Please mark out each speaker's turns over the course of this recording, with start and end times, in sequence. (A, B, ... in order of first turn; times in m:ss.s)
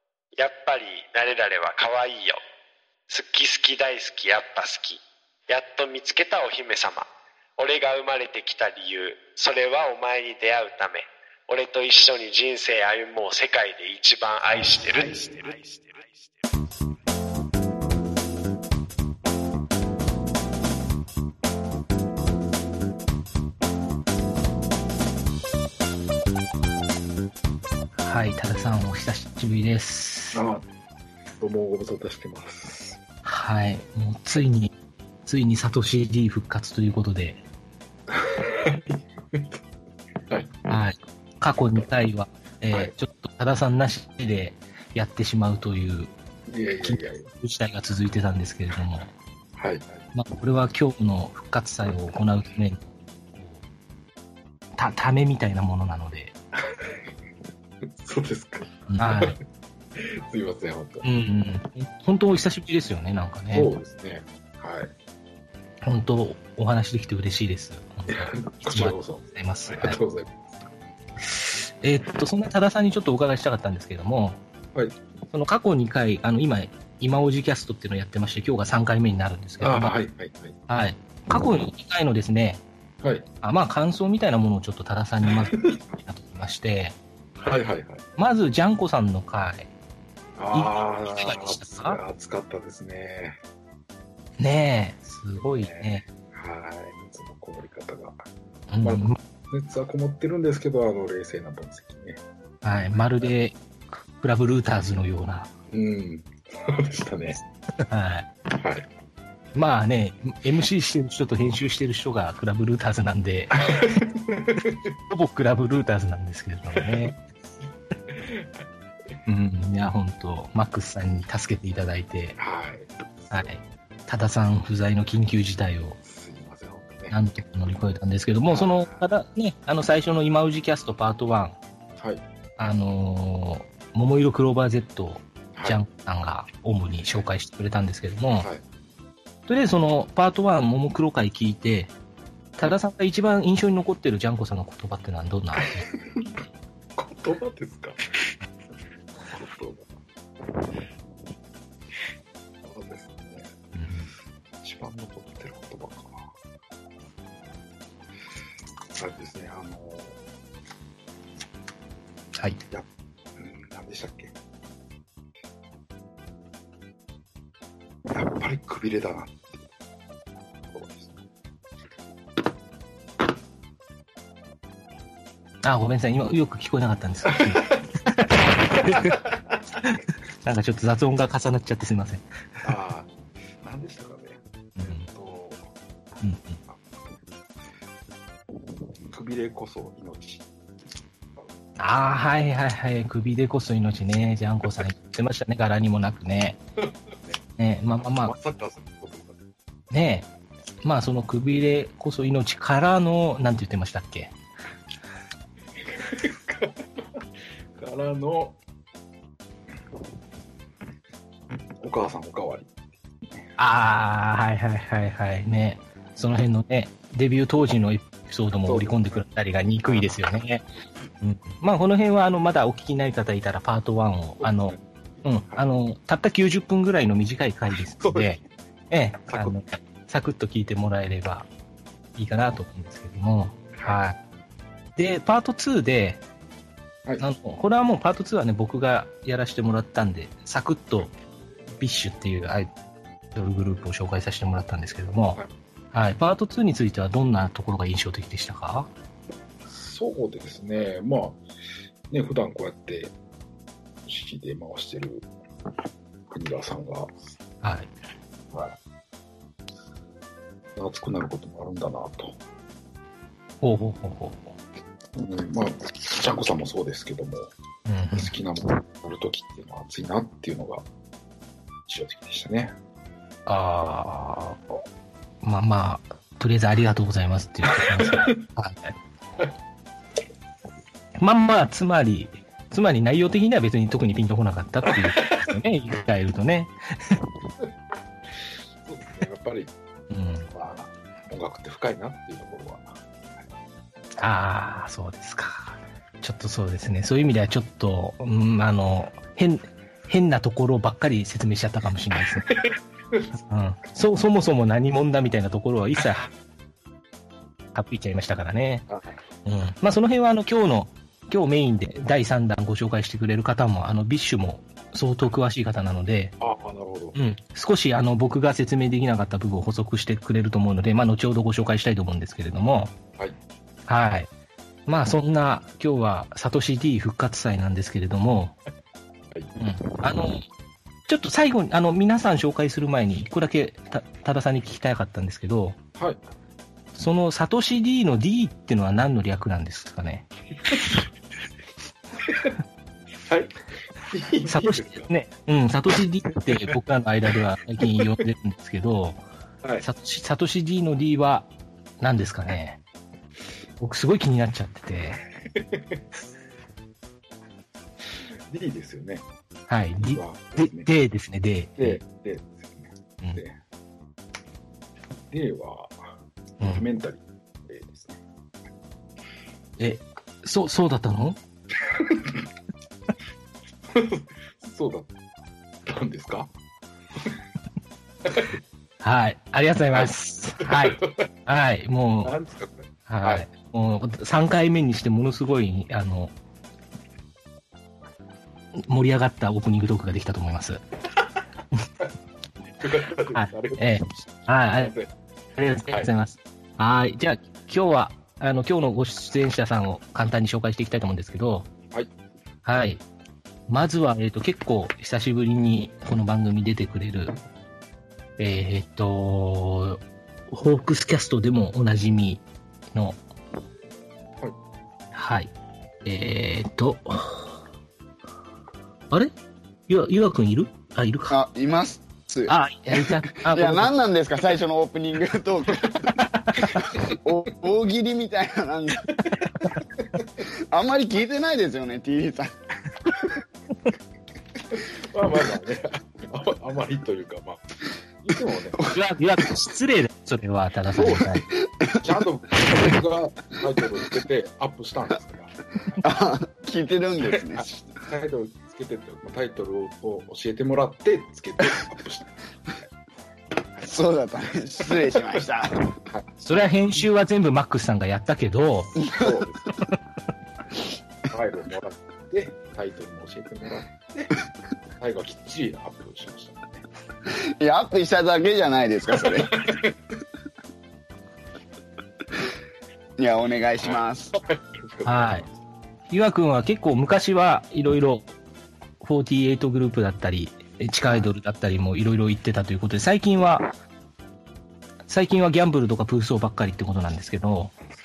0:00.4-0:02.4 A
0:03.1-0:07.1 A
0:07.6-0:16.1 A
0:28.0-0:30.4 B
0:30.3-0:30.6 C
0:31.4-0:33.0 C
0:33.2-0:34.7 B
0:35.3-0:37.4 B
0:38.1-0:39.6 C
0:40.3-0:40.7 C
0:40.7-0:46.1 B
0:46.5-0:47.3 C
0:46.8-0:49.1 B
0:49.6-0:50.0 C
0:50.1-0:53.6 B
0:54.8-0:56.3 B
0:56.7-0:57.0 C
0:58.0-0:59.4 C
0:58.9-0:59.4 B
1:00.0-1:01.0 C
1:01.0-1:03.7 B
1:03.5-1:04.9 C
1:05.8-1:10.0 B
1:08.1-1:10.3 C
1:11.4-1:14.4 B
1:15.3-1:20.0 B
1:19.6-1:20.6 C
1:20.7-1:22.6 B
1:23.4-1:27.0 B
1:25.4-1:25.8 C
1:27.4-1:28.0 C
1:28.2-1:29.7 B
1:30.4-1:33.4 C
1:30.5-1:32.0 B
1:34.4-1:36.0 B
1:35.4-1:38.2 C
1:38.7-1:39.2 B
1:38.8-1:42.2 C
1:42.6-1:43.6 B
1:44.2-1:45.5 B
1:45.7-1:47.4 C
1:47.9-1:48.3 B
1:48.6-1:48.9 C
1:49.6-1:53.6 B
1:53.6-1:54.8 C
1:55.1-1:57.1 B
1:56.8-1:57.1 C
1:58.1-1:58.5 C
1:59.3-2:02.4 B
2:02.4-2:03.5 C
2:03.3-2:06.0 B
2:06.0-2:07.2 C
2:07.1-2:11.6 B
2:08.5-2:09.1 C
2:12.0-2:12.2 C
2:12.6-2:18.5 B
2:15.6-2:15.8 C
2:19.5-2:21.9 B
2:22.6-2:25.8 B
2:27.0-2:28.0 C
2:29.2-2:29.9 C
2:32.6-2:33.5 C
2:33.8-2:34.1 B
2:34.6-2:36.3 C
2:39.0-2:40.2 C
2:43.4-2:44.3 C
2:48.1-2:49.6 C
2:50.7-2:51.2 C
2:55.6-2:59.1 B
2:57.4-2:57.8 C
2:59.8-3:02.2 B
3:02.6-3:03.1 C
3:03.6-3:05.6 C
3:04.8-3:05.0 B
3:06.2-3:06.6 B
3:09.1-3:10.5 C
3:11.8-3:16.6 B
3:17.6-3:18.3 B
3:18.0-3:19.4 C
3:19.9-3:20.3 B
3:20.8-3:24.3 B
3:25.9-3:27.2 C
3:27.8-3:28.6 C
3:31.8-3:32.8 C
3:33.6-3:40.6 B
3:38.7-3:39.2 C
3:39.8-3:40.2 C
3:41.2-3:48.4 B
3:44.4-3:45.7 C
3:48.0-3:48.4 C
3:48.9-3:51.5 B
3:49.3-3:49.6 C
3:52.2-3:54.2 B
3:55.0-3:56.2 B
3:57.2-4:01.1 B
4:01.8-4:02.7 B
4:03.4-4:05.4 B
4:05.9-4:08.9 B
4:09.7-4:11.4 C
4:12.1-4:13.2 C
4:14.1-4:15.3 C
4:16.3-4:17.1 C
4:17.6-4:17.9 B
4:18.5-4:18.8 C
4:20.8-4:22.4 C
4:23.6-4:24.5 B
4:25.2-4:27.5 C
4:27.9-4:28.3 B
4:28.1-4:30.9 C
4:31.9-4:32.7 C
4:33.5-4:34.6 B
4:35.4-4:39.0 B
4:37.8-4:38.4 C
4:41.2-4:47.2 B
4:48.9-4:49.7 C
4:50.1-4:50.5 B
4:50.5-4:53.5 C
4:54.2-5:02.5 B
5:02.5-5:03.2 C
5:03.5-5:06.3 B
5:07.7-5:08.8 B
5:09.4-5:16.4 B
5:16.4-5:17.2 C
5:17.2-5:22.9 B
5:23.9-5:24.3 B
5:24.9-5:28.6 B
5:29.6-5:30.4 B
5:31.1-5:35.8 B
5:37.0-5:40.3 B
5:42.3-5:42.5 C
5:43.3-5:43.5 C
5:44.1-5:45.1 C
5:44.5-5:49.2 B
5:49.8-5:51.5 B
5:52.0-5:52.8 B
5:53.8-5:55.2 B
5:55.6-5:56.0 C
5:58.5-5:59.2 C
5:59.7-6:02.0 B
6:00.0-6:00.9 C
6:01.8-6:03.6 C
6:05.3-6:05.9 C
6:06.6-6:08.2 C
6:09.8-6:11.4 B
6:11.9-6:12.4 C
6:13.9-6:15.1 C
6:15.9-6:16.5 C
6:18.2-6:18.6 C
6:19.0-6:22.4 B
6:20.6-6:21.2 C
6:22.2-6:23.4 C
6:23.1-6:26.3 B
6:28.8-6:30.8 B
6:32.8-6:33.9 C
6:33.4-6:34.9 B
6:34.7-6:35.1 C
6:35.6-6:41.7 B
6:42.6-6:43.0 B
6:43.7-6:47.4 B
6:48.4-6:52.4 B
6:55.1-6:55.5 B
6:56.0-6:57.5 B
6:59.9-7:01.4 B
7:01.3-7:09.1 D
7:02.5-7:03.9 B
7:10.7-7:12.5 D
7:14.7-7:17.6 C
7:18.2-7:18.9 C
7:18.9-7:21.4 B
7:21.0-7:21.4 C
7:21.6-7:22.1 D
7:22.0-7:25.5 C
7:26.0-7:27.8 D
7:27.3-7:32.7 C
7:33.8-7:35.9 D
7:36.4-7:39.0 B
7:39.0-7:39.5 D
7:39.1-7:39.7 C
7:41.3-7:44.5 C
7:45.0-7:46.8 C
7:47.6-7:49.8 D
7:49.2-7:49.9 C
7:53.2-7:54.4 D
7:53.8-7:55.5 C
7:55.0-7:55.5 B
7:56.1-7:58.3 B
7:59.0-8:03.7 B
8:05.1-8:07.7 B